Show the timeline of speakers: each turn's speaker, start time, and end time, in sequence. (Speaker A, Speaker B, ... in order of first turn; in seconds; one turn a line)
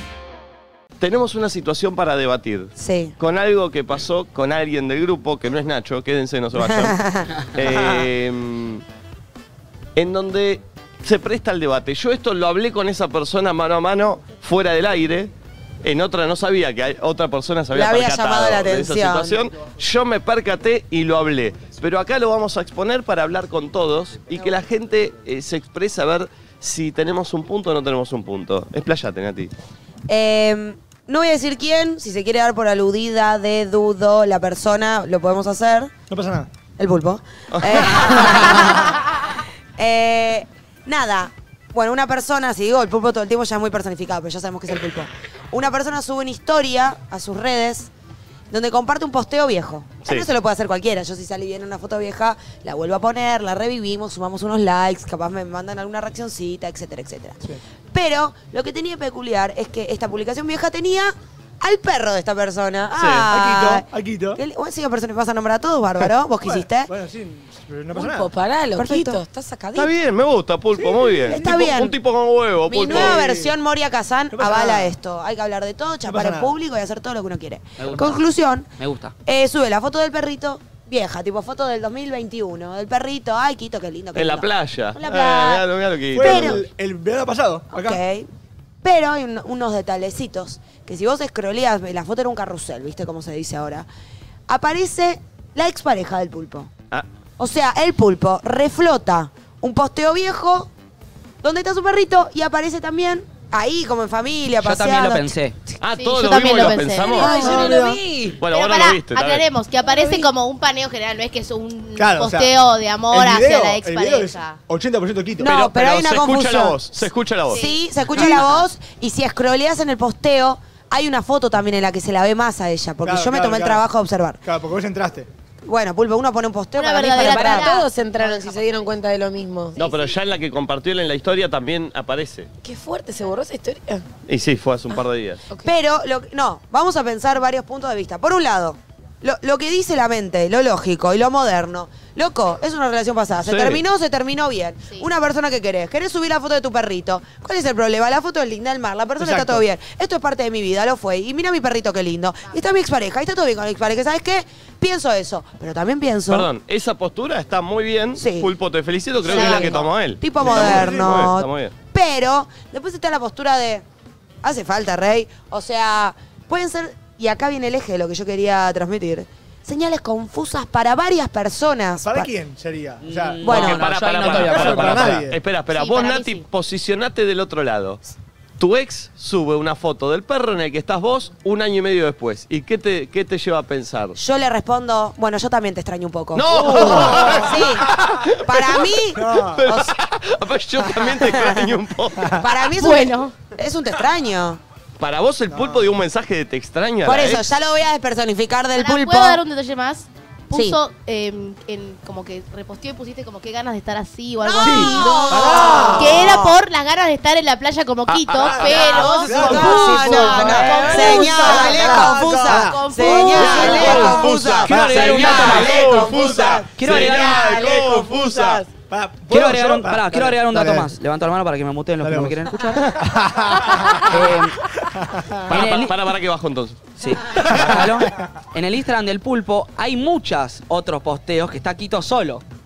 Speaker A: 1.0-8.8
Speaker B: 2.8-3.1
Speaker B: 6.6-7.3
Speaker A: 10.0-15.3
Speaker A: 15.8-29.5
Speaker B: 17.7-19.4
Speaker B: 30.1-35.9
Speaker C: 36.1-36.5
Speaker B: 36.8-39.0
Speaker A: 37.5-38.6
Speaker B: 39.8-47.9
Speaker B: 48.5-66.9
Speaker A: 63.0-63.3
Speaker C: 63.3-64.4
Speaker C: 66.4-68.3
Speaker D: 67.9-69.9
Speaker B: 68.8-69.2
Speaker A: 69.7-73.2
Speaker C: 70.8-71.7
Speaker B: 71.3-72.0
Speaker B: 72.7-78.7
Speaker C: 72.8-73.5
Speaker C: 74.3-74.9
Speaker C: 76.1-76.5
Speaker E: 77.8-78.2
Speaker E: 78.8-79.1
Speaker B: 79.3-85.7
Speaker A: 84.2-86.6
Speaker C: 85.1-85.5
Speaker C: 86.1-88.0
Speaker B: 86.2-86.6
Speaker B: 87.7-88.3
Speaker B: 88.8-93.9
Speaker B: 94.5-96.7
Speaker B: 97.4-100.7
Speaker B: 101.4-105.3
Speaker E: 104.6-105.6
Speaker A: 105.8-107.6
Speaker F: 106.0-107.9
Speaker D: 107.2-108.4
Speaker C: 107.3-108.1
Speaker A: 108.4-109.5
Speaker F: 108.5-114.6
Speaker D: 109.8-110.3
Speaker C: 112.0-112.5
Speaker C: 113.1-115.5
Speaker B: 115.4-116.8
Speaker A: 115.4-117.6
Speaker F: 117.5-118.6
Speaker B: 117.5-124.4
Speaker C: 123.0-123.8
Speaker C: 124.4-125.3
Speaker B: 125.7-128.6
Speaker F: 126.8-127.9
Speaker D: 127.2-129.9
Speaker A: 129.8-132.5
Speaker D: 132.6-134.1
Speaker A: 134.3-135.4
Speaker B: 135.6-156.5
Speaker A: 143.4-143.8
Speaker C: 149.2-149.6
Speaker A: 156.3-161.7
Speaker B: 158.2-158.5
Speaker F: 159.2-159.8
Speaker B: 159.3-163.8
Speaker C: 160.4-161.2
Speaker B: 164.4-172.3
Speaker C: 172.0-173.5
Speaker E: 173.0-175.1
Speaker B: 173.4-173.8
Speaker A: 173.5-178.0
Speaker C: 174.2-175.4
Speaker F: 175.7-176.4
Speaker A: 178.6-184.2
Speaker B: 184.2-187.9
Speaker A: 186.3-192.4
Speaker C: 186.5-187.6
Speaker B: 188.4-189.8
Speaker C: 189.2-189.7
Speaker B: 190.9-191.8
Speaker B: 192.3-194.6
Speaker F: 192.8-193.3
Speaker A: 195.0-197.5
Speaker C: 195.5-195.9
Speaker B: 197.1-199.4
Speaker F: 198.8-213.8
Speaker B: 200.5-200.8
Speaker B: 204.4-206.6
Speaker C: 204.6-206.4
Speaker A: 208.1-211.0
Speaker C: 208.4-220.9
Speaker B: 209.2-216.4
Speaker A: 213.2-218.6
Speaker E: 213.7-216.0
Speaker E: 216.8-217.5
Speaker E: 219.3-222.9
Speaker C: 222.0-224.1
Speaker E: 224.0-224.6
Speaker C: 224.9-225.5
Speaker E: 225.5-225.9
Speaker A: 225.5-227.7
Speaker E: 227.0-232.4
Speaker C: 227.5-228.1